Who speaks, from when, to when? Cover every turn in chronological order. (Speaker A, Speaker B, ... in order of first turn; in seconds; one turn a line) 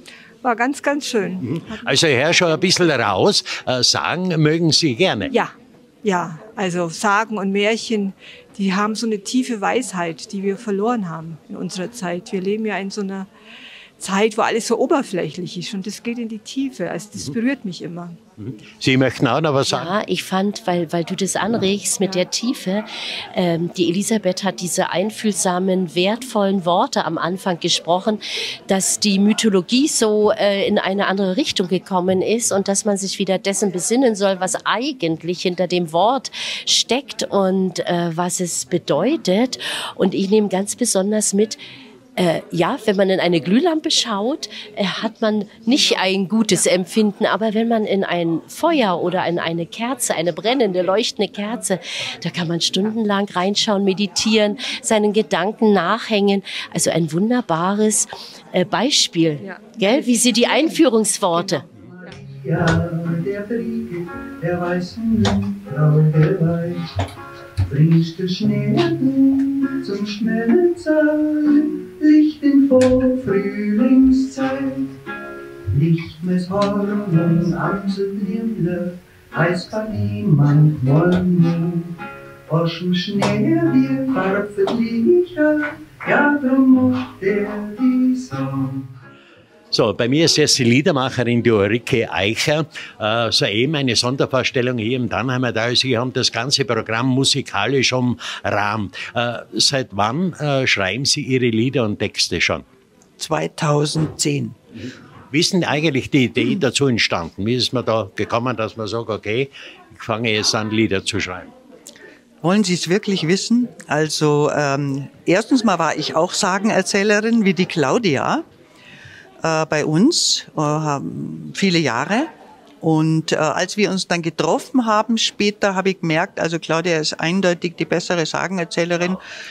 Speaker A: 0.4-2.0
Speaker B: 1.5-5.3
Speaker A: 5.3-13.3
Speaker A: 14.0-18.2
Speaker B: 18.4-19.9
Speaker C: 19.7-41.6
Speaker A: 22.0-22.3
Speaker C: 42.2-61.6
Speaker A: 59.4-60.7
Speaker D: 61.2-66.8
Speaker D: 67.7-74.9
Speaker D: 75.7-81.9
Speaker D: 82.5-88.9
Speaker B: 89.7-102.6
Speaker E: 103.2-104.5
Speaker B: 105.3-111.5
Speaker E: 112.4-118.4
Speaker E: 119.4-122.3
Speaker E: 122.8-129.2